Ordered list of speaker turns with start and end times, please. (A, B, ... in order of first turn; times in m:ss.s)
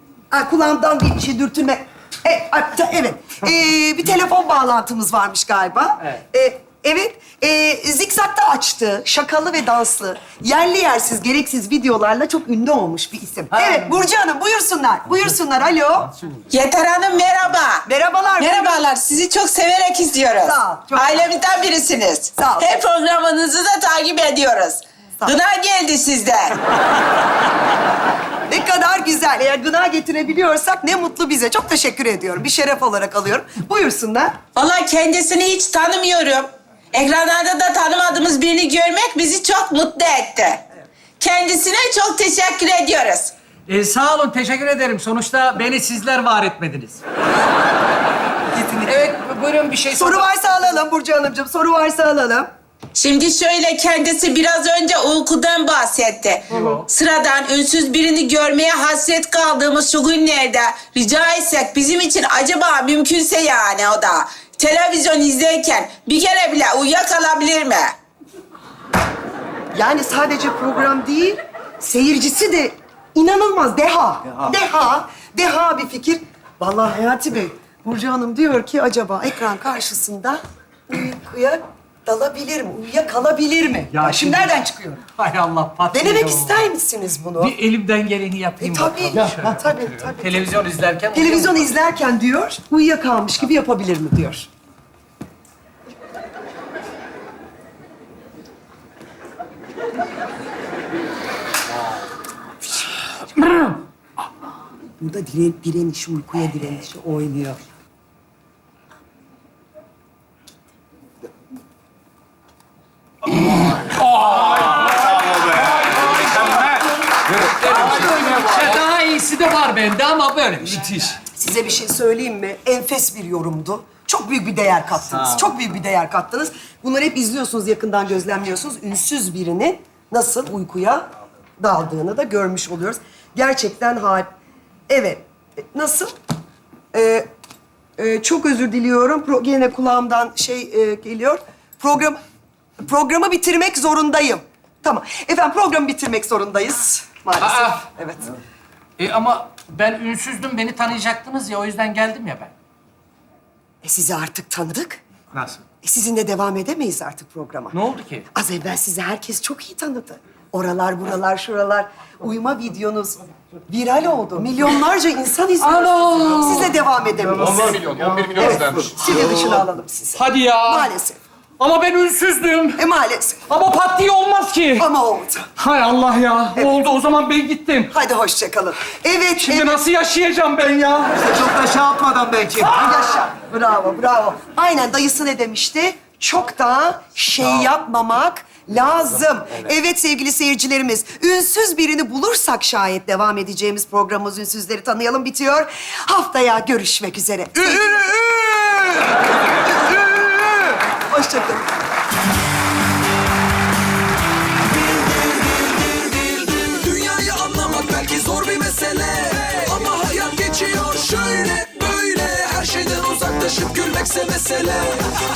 0:00.3-0:16.1 A
0:13.6-0:13.8 B
0:16.5-0:17.8 C
0:17.8-0:18.8 A
0:18.4-0:26.6 C
0:20.4-0:21.3 A
0:22.4-0:22.7 A
0:28.5-0:34.4 A
0:34.6-0:40.6 C
0:41.2-0:43.3 C
0:43.7-0:47.0 B
0:48.5-0:50.3 B
0:49.9-0:52.5 A
0:52.9-1:07.9 C
0:56.5-0:56.9 B
0:56.5-0:56.8 A
1:09.7-1:25.0 A
1:23.9-1:24.6 B
1:25.1-1:26.7 B
1:25.9-1:27.5 A
1:27.4-1:31.7 B
1:28.6-1:30.4 A
1:31.1-1:34.5 A
1:45.0-1:47.6 A
1:53.7-1:58.1 D
1:57.4-2:00.9 B
1:57.7-1:58.8 E
2:00.7-2:01.2 D
2:01.3-2:11.0 A
2:11.6-2:14.3 A
2:14.9-2:16.1 A
2:16.9-2:17.3 A
2:18.0-2:22.2 A
2:22.8-2:28.3 A
2:27.4-2:27.8 B
2:29.0-2:32.5 B
2:33.8-2:35.0 A
2:35.3-2:35.6 B
2:35.8-2:37.8 A
2:37.7-2:38.2 B
2:38.3-2:47.8 A
2:45.6-2:46.7 B
2:47.3-2:49.0 E
2:48.4-2:51.2 A
2:50.1-2:50.9 B
2:51.6-2:52.8 B
2:52.8-2:53.4 A
2:53.5-2:54.9 B
2:54.8-2:55.5 A
2:55.6-2:57.9 B
2:57.9-2:59.8 A
2:59.4-3:01.5 B
3:01.4-3:02.4 D
3:02.0-3:02.9 B
3:02.6-3:19.1 A
3:19.7-3:21.7 A
3:26.6-3:34.9 B